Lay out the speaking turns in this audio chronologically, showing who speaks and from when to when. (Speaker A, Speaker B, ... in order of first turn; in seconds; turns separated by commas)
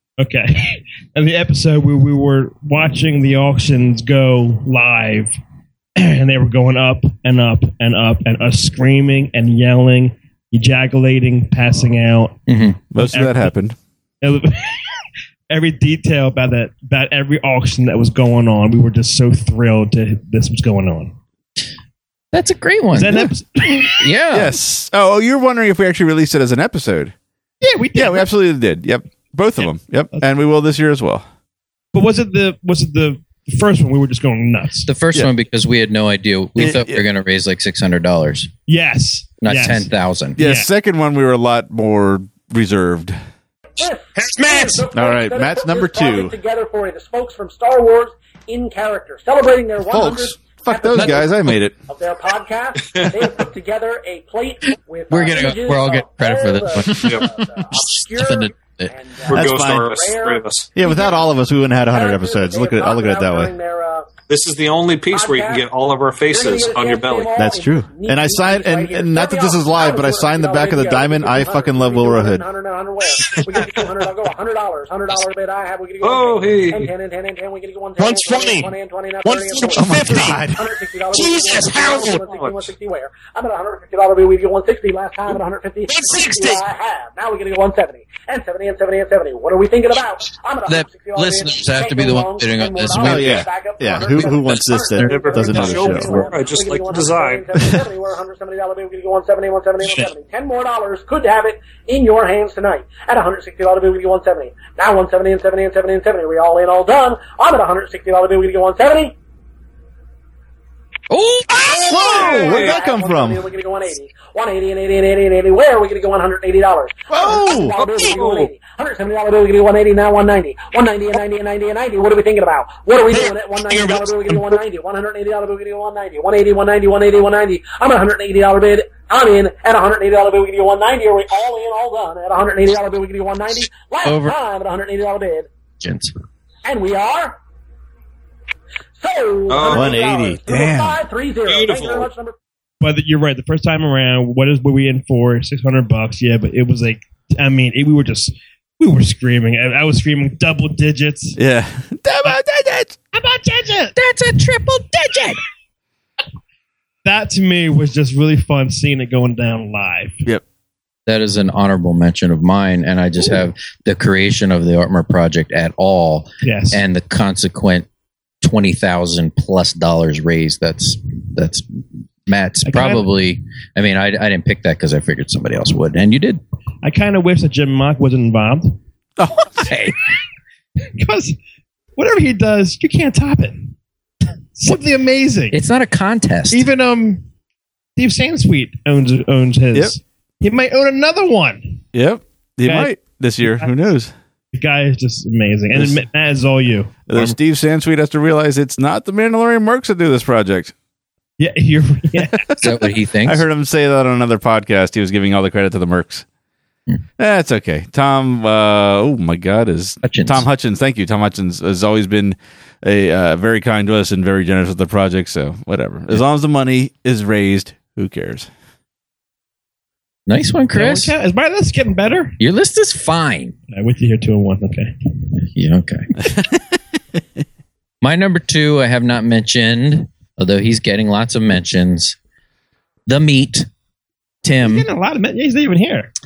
Speaker A: 0.2-5.3, Speaker A: 6.0-12.4, Speaker B: 12.5-12.8, Speaker C: 12.9-13.8, Speaker A: 13.0-13.5, Speaker A: 14.2-14.8, Speaker A: 15.5-21.1, Speaker B: 22.3-24.5, Speaker A: 22.9-24.1, Speaker C: 24.3-27.1, Speaker A: 27.6-28.3, Speaker C: 27.9-31.2, Speaker A: 31.9-34.9, Speaker B: 34.9-38.5, Speaker C: 36.6-37.0, Speaker A: 38.7-39.9, Speaker B: 39.4-40.4, Speaker C: 40.4-43.1, Speaker A: 40.4-40.7, Speaker D: 43.8-61.3, Speaker A: 44.2-44.8, Speaker C: 44.9-46.3, Speaker C: 49.9-51.7, Speaker B: 50.9-51.2, Speaker E: 52.9-53.1, Speaker B: 55.1-58.9, Speaker E: 57.0-57.3, Speaker E: 59.3-60.7, Speaker C: 59.3-59.9, Speaker C: 60.7-63.5, Speaker D: 61.9-64.1, Speaker E: 64.3-67.4, Speaker D: 65.1-65.7, Speaker D: 66.3-109.1, Speaker C: 67.3-72.4, Speaker E: 76.0-76.9, Speaker C: 79.7-80.6, Speaker C: 81.2-81.9, Speaker E: 81.9-82.7, Speaker C: 86.0-86.4, Speaker B: 90.7-93.4, Speaker C: 93.0-96.3, Speaker E: 95.0-97.5, Speaker C: 97.5-97.8, Speaker B: 111.1-111.5, Speaker C: 111.5-113.4, Speaker E: 111.7-112.8, Speaker D: 111.8-135.5, Speaker C: 117.1-118.2, Speaker E: 117.8-118.5, Speaker B: 134.0-134.3, Speaker B: 135.8-136.1, Speaker D: 136.6-137.4, Speaker D: 139.0-142.3, Speaker E: 139.5-140.1, Speaker C: 139.7-141.0, Speaker E: 141.5-142.1, Speaker A: 142.8-151.4, Speaker C: 151.4-152.9, Speaker A: 153.1-153.9, Speaker B: 153.9-155.4, Speaker A: 157.0-160.2, Speaker B: 161.1-167.8, Speaker A: 166.4-166.8, Speaker B: 168.4-176.4, Speaker A: 172.7-173.1, Speaker A: 176.8-178.8, Speaker B: 179.2-179.9, Speaker A: 181.0-181.4, Speaker A: 181.9-183.7, Speaker A: 184.6-185.6, Speaker B: 185.5-186.7, Speaker A: 186.5-187.2, Speaker A: 188.0-191.8, Speaker C: 191.9-194.1, Speaker A: 192.6-192.9, Speaker A: 194.5-197.4, Speaker C: 197.1-200.7, Speaker A: 201.4-202.4, Speaker B: 202.6-203.4, Speaker C: 203.2-206.2, Speaker C: 207.2-218.5, Speaker B: 210.0-210.4, Speaker B: 220.3-221.1, Speaker A: 220.7-222.4, Speaker B: 222.4-223.5, Speaker A: 223.7-224.9, Speaker B: 225.3-226.1, Speaker C: 226.3-226.5, Speaker B: 228.0-232.2, Speaker B: 233.1-233.7, Speaker B: 234.4-234.9, Speaker A: 234.6-236.1